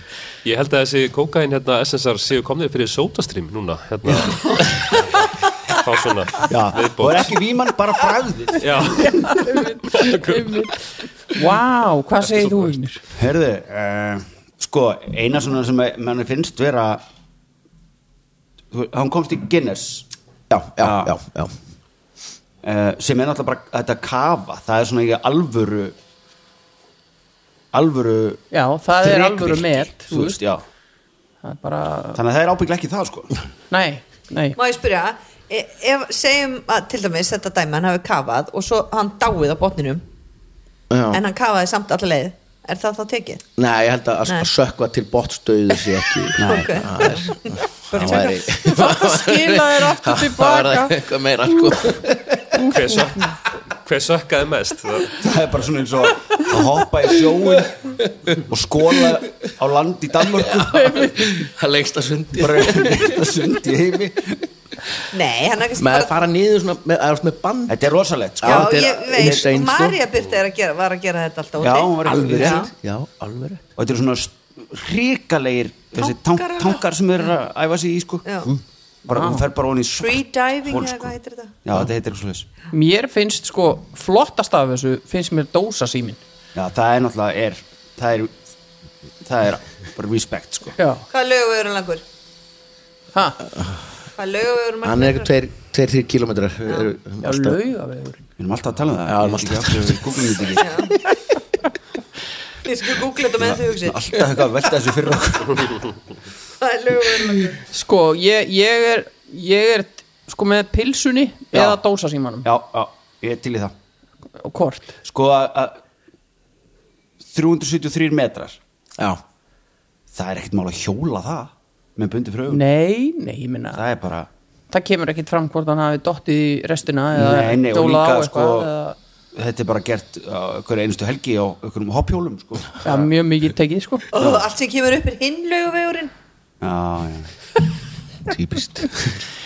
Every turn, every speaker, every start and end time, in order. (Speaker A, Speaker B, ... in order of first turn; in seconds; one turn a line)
Speaker A: 0.4-7.3
Speaker B: 6.4-9.3
Speaker A: 8.6-10.7
Speaker C: 9.0-13.0
Speaker A: 12.3-12.7
Speaker B: 13.1-17.0
Speaker B: 18.7-20.1
Speaker D: 20.5-21.5
Speaker B: 20.8-21.1
Speaker B: 22.6-25.9
Speaker B: 27.7-28.4
Speaker C: 28.5-30.4
Speaker B: 29.0-30.6
Speaker C: 31.4-32.2
Speaker B: 32.1-33.4
Speaker C: 33.7-34.6
Speaker E: 34.6-40.0
Speaker D: 40.9-41.2
Speaker E: 41.1-43.4
Speaker D: 43.6-53.0
Speaker B: 46.4-46.8
Speaker E: 46.4-48.4
Speaker C: 48.1-51.0
Speaker A: 52.6-55.2
Speaker B: 55.2-61.0
Speaker D: 60.4-63.2
Speaker C: 60.7-61.2
Speaker B: 62.4-64.5
Speaker E: 65.1-66.2
Speaker D: 65.8-67.8
Speaker B: 67.7-69.4
Speaker D: 68.4-70.0
Speaker E: 68.4-72.7
Speaker B: 71.6-72.7
Speaker D: 72.0-73.6
Speaker B: 73.8-81.1
Speaker E: 76.0-76.8
Speaker C: 79.1-79.4
Speaker E: 80.0-81.6
Speaker B: 81.6-82.5
Speaker C: 82.7-86.2
Speaker B: 86.5-88.4
Speaker B: 89.2-90.8
Speaker C: 90.8-91.0
Speaker E: 91.1-92.0
Speaker C: 93.1-93.4
Speaker D: 93.5-93.8
Speaker E: 94.1-95.3
Speaker D: 94.8-97.6
Speaker C: 97.2-98.2
Speaker B: 98.4-100.8
Speaker D: 99.1-100.2
Speaker E: 100.6-101.0
Speaker E: 102.6-104.0
Speaker B: 103.4-105.9
Speaker E: 106.6-107.6
Speaker C: 107.7-112.5
Speaker B: 112.4-113.7
Speaker C: 114.4-114.9
Speaker B: 115.0-115.8
Speaker B: 117.2-118.6
Speaker B: 120.1-122.6
Speaker C: 122.5-123.8
Speaker B: 123.7-124.3
Speaker C: 124.7-128.9
Speaker B: 127.1-128.7
Speaker B: 129.3-133.1
Speaker C: 132.8-134.1
Speaker E: 134.1-136.1
Speaker B: 136.6-137.3
Speaker D: 138.3-139.1